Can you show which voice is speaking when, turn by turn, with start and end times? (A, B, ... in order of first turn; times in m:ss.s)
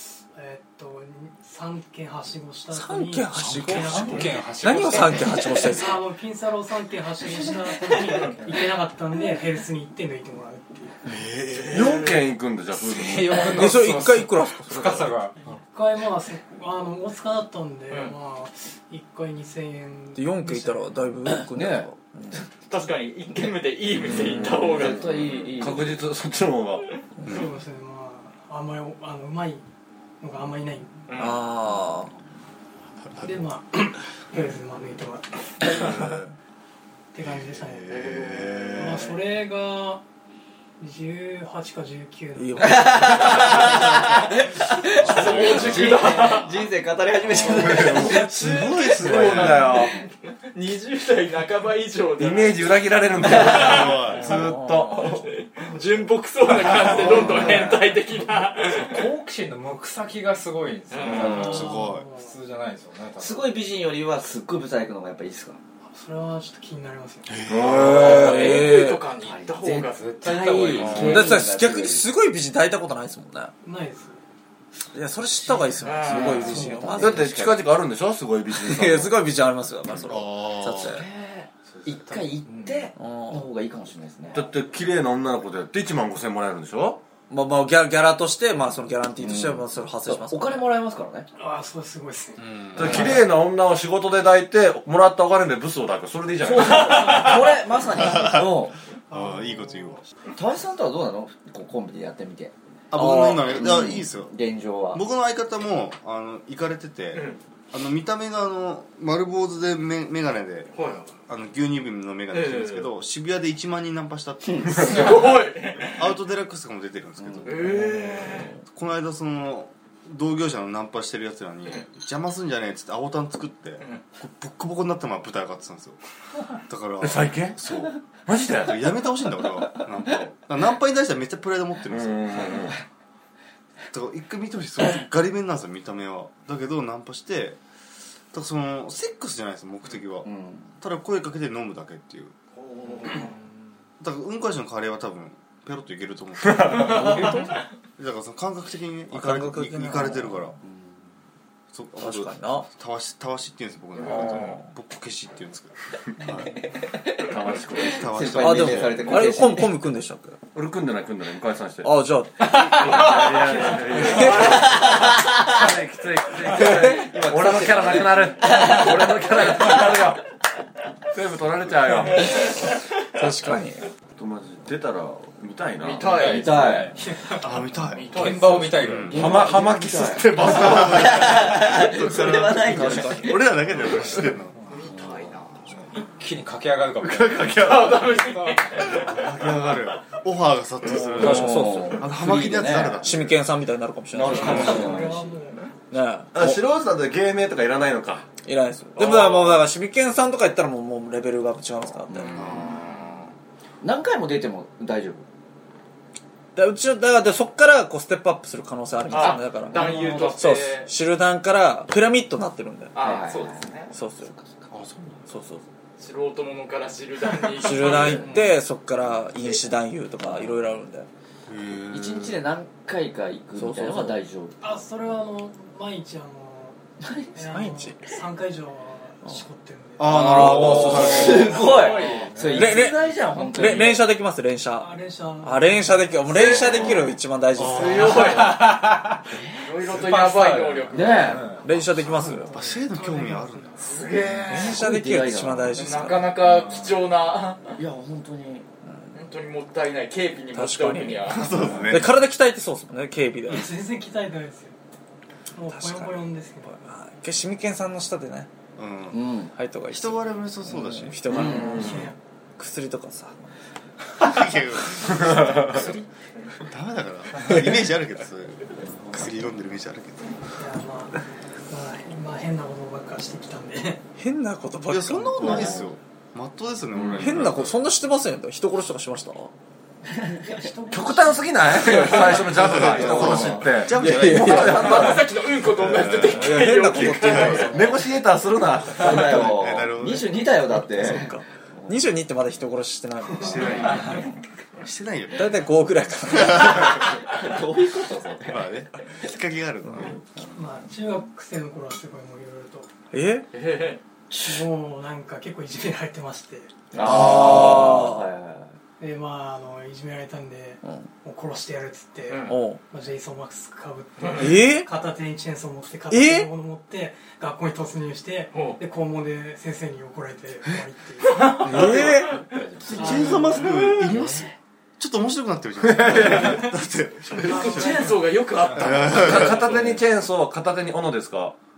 0:00.3-0:04.4 A
0:02.7-0:06.0 B
0:03.4-0:05.6 C
0:05.7-0:11.1 A
0:11.0-0:12.0 D
0:11.6-0:12.2 E
0:11.7-0:13.7 F
0:12.8-0:15.4 C
0:13.5-0:15.1 B
0:15.4-0:20.9 A
0:17.9-0:18.1 E
0:20.2-0:22.4 B
0:21.3-0:22.4 G
0:22.7-0:25.3 E
0:24.0-0:26.8 F
0:24.1-0:26.0 G
0:27.2-0:29.6 A
0:30.2-0:31.0 A
0:31.1-0:31.4 E
0:31.2-0:32.1 B
0:33.2-0:36.1 A
0:37.1-0:37.9 A
0:37.5-0:39.1 D
0:37.9-0:38.9 E
0:38.7-0:40.0 A
0:40.8-0:43.3 A
0:42.4-0:43.7 B
0:42.6-0:48.6 G
0:45.0-0:46.7 E
0:45.2-0:45.9 F
0:47.3-0:50.0 F
0:47.6-0:54.3 E
0:48.0-0:49.7 D
0:52.2-0:55.2 F
0:53.4-0:54.3 D
0:54.3-0:54.9 B
0:54.9-0:59.1 E
0:56.7-0:57.5 D
0:56.8-0:57.9 G
0:58.7-1:03.5 C
1:00.9-1:01.4 E
1:01.1-1:02.1 D
1:01.2-1:02.3 A
1:03.2-1:05.6 G
1:05.8-1:07.4 A
1:07.3-1:08.2 D
1:07.5-1:08.6 F
1:07.8-1:09.1 B
1:07.9-1:10.1 E
1:09.1-1:12.1 G
1:09.9-1:11.3 C
1:10.8-1:11.2 D
1:10.9-1:13.5 B
1:13.6-1:14.2 A
1:14.9-1:17.3 B
1:15.4-1:17.7 G
1:15.8-1:16.5 E
1:16.5-1:16.8 A
1:17.0-1:19.2 F
1:18.6-1:21.0 B
1:20.0-1:21.0 D
1:20.8-1:24.5 G
1:22.4-1:22.8 C
1:23.0-1:23.5 B
1:24.3-1:27.0 F
1:27.3-1:30.7 B
1:29.2-1:31.3 G
1:31.4-1:32.5 A
1:32.4-1:33.1 D
1:32.7-1:37.5 F
1:36.4-1:38.8 G
1:36.9-1:37.4 E
1:37.9-1:40.0 D
1:39.1-1:40.0 A
1:40.3-1:42.5 G
1:42.9-1:44.3 D
1:42.9-1:43.5 B
1:43.5-1:45.0 G
1:44.9-1:50.7 D
1:47.1-1:47.4 E
1:50.7-1:51.1 E
1:51.3-1:55.3 D
1:52.3-1:52.9 E
1:54.4-1:55.2 G
1:54.8-1:56.1 E
1:55.8-1:57.9 D
1:57.2-1:57.8 G
1:57.4-1:58.5 E
1:57.7-1:58.6 B
1:58.7-2:06.0 D
2:06.6-2:07.9 D
2:07.0-2:07.6 F
2:08.2-2:08.9 F
2:08.6-2:12.4 D
2:11.9-2:12.8 F
2:12.3-2:12.8 G
2:13.9-2:17.6 D
2:18.3-2:22.3 D
2:20.2-2:20.7 G
2:22.8-2:23.3 G
2:24.0-2:27.3 D
2:26.5-2:27.2 F
2:26.7-2:27.5 E
2:27.1-2:27.5 B
2:28.0-2:30.5 D
2:29.1-2:30.6 B
2:30.6-2:31.1 G
2:31.7-2:36.5 D
2:32.0-2:32.7 B
2:34.0-2:34.6 E
2:34.3-2:34.7 B
2:36.8-2:37.2 G
2:37.2-2:38.0 F
2:37.8-2:39.2 D
2:37.9-2:39.8 G
2:38.4-2:40.4 B
2:40.5-2:42.0 F
2:41.8-2:42.8 B
2:42.6-2:45.2 E
2:42.6-2:50.2 F
2:42.8-2:45.6 G
2:46.4-2:50.0 G
2:51.1-2:52.5 F
2:53.1-2:53.9 B
2:54.2-2:56.3 F
2:55.8-2:56.8 E
2:56.0-2:57.0 C
2:56.2-2:57.0 G
2:56.9-2:57.7 A
2:57.4-2:58.2 D
2:57.9-2:58.8 E
2:58.1-2:59.5 C
2:58.8-2:59.2 D
2:59.1-3:02.3 F
2:59.1-3:03.3 G
3:00.4-3:04.6 D
3:04.7-3:05.6 E
3:04.8-3:05.5 G
3:05.9-3:08.7 C
3:07.0-3:08.1 F
3:07.5-3:09.9 E
3:08.8-3:13.4 D
3:11.0-3:11.5 F
3:11.1-3:13.1 G
3:11.2-3:12.0 B
3:13.0-3:14.9 B
3:14.1-3:15.3 G
3:14.3-3:15.7 A
3:14.3-3:14.7 E
3:14.5-3:14.8 D
3:15.9-3:16.6 B
3:16.3-3:18.3 F
3:18.4-3:22.3 B
3:19.0-3:19.4 E
3:22.1-3:23.0 G
3:22.3-3:23.3 D
3:23.8-3:25.2 G
3:26.5-3:33.0 B
3:29.1-3:30.9 E
3:29.7-3:30.4 A
3:32.9-3:33.9 E
3:33.0-3:34.7 G
3:33.9-3:34.3 B
3:34.7-3:35.3 D
3:35.3-3:35.6 B
3:36.0-3:38.4 E
3:37.3-3:37.7 A
3:37.6-3:41.1 B
3:38.1-3:38.5 C
3:40.2-3:40.5 G
3:41.5-3:42.4 D
3:41.9-3:44.7 G
3:43.6-3:44.2 B
3:44.6-3:46.8 A
3:47.0-3:47.4 G
3:47.3-3:50.3 A
3:47.5-3:48.0 B
3:50.0-3:51.7 D
3:50.0-3:51.5 B
3:50.6-3:53.6 C
3:50.7-3:54.1 G
3:51.0-3:52.4 E
3:52.5-3:58.5 B
3:54.8-3:56.6 A
3:56.3-3:57.0 E
3:56.7-3:57.1 F
3:57.6-3:58.4 D
3:57.7-3:58.8 E
3:58.0-3:59.2 C
3:59.3-3:59.8 G
3:59.6-4:01.5 E
3:59.8-4:01.8 C
4:00.9-4:01.5 G
4:01.6-4:02.5 B
4:02.2-4:04.1 D
4:02.3-4:04.2 A
4:03.8-4:04.8 E
4:04.1-4:04.6 C
4:04.5-4:06.4 B
4:04.5-4:06.1 G
4:05.8-4:07.8 E
4:06.4-4:07.0 C
4:07.8-4:08.7 G
4:08.8-4:09.1 B
4:09.1-4:11.7 E
4:10.5-4:13.7 B
4:11.3-4:12.2 D
4:13.5-4:14.7 A
4:15.5-4:16.7 A
4:15.7-4:18.5 B
4:18.8-4:19.3 D
4:19.1-4:19.5 G
4:19.5-4:21.8 B
4:19.9-4:21.4 D
4:21.3-4:22.1 F
4:21.3-4:21.9 G
4:21.8-4:22.1 A
4:22.6-4:23.5 B
4:24.2-4:25.9 D
4:25.1-4:25.9 F
4:26.6-4:30.3 D
4:28.8-4:29.2 G
4:30.6-4:34.0 A
4:34.2-4:35.8 B
4:34.9-4:37.7 D
4:35.5-4:35.8 F
4:36.9-4:37.4 F
4:37.2-4:39.5 B
4:40.1-4:40.7 G
4:40.3-4:42.5 A
4:40.9-4:45.2 F
4:41.9-4:45.2 G
4:42.5-4:45.1 D
4:44.5-4:48.0 E
4:45.8-4:46.1 D
4:46.0-4:46.3 F
4:46.3-4:47.8 B
4:46.9-4:49.5 F
4:47.2-4:47.7 D
4:49.0-4:52.1 G
4:49.1-4:50.5 D
4:50.9-4:54.2 B
4:53.3-4:54.2 A
4:53.4-4:54.2 D
4:53.8-4:54.2 G
4:54.8-4:55.7 D
4:55.4-4:57.1 B
4:56.4-4:57.0 D
4:56.9-4:58.7 G
4:58.4-5:00.2 D
4:59.8-5:00.2 B
5:00.0-5:00.5 G
5:00.5-5:02.9 A
5:03.1-5:03.4 B
5:03.5-5:04.0 E
5:04.3-5:04.6 G
5:04.4-5:06.7 A
5:06.9-5:08.8 G
5:07.0-5:08.3 B
5:07.0-5:07.7 D
5:09.0-5:22.1 A
5:12.3-5:12.6 E
5:12.5-5:12.8 B
5:14.4-5:14.9 B
5:16.1-5:16.5 B
5:18.5-5:18.8 E
5:21.2-5:22.6 E
5:21.6-5:22.4 B
5:22.5-5:24.5 G
5:22.8-5:23.1 C
5:22.8-5:28.1 D
5:22.9-5:23.7 A
5:23.5-5:24.1 E
5:26.0-5:26.6 F
5:27.4-5:30.0 E
5:27.4-5:28.2 A
5:28.8-5:29.6 D
5:29.0-5:31.6 F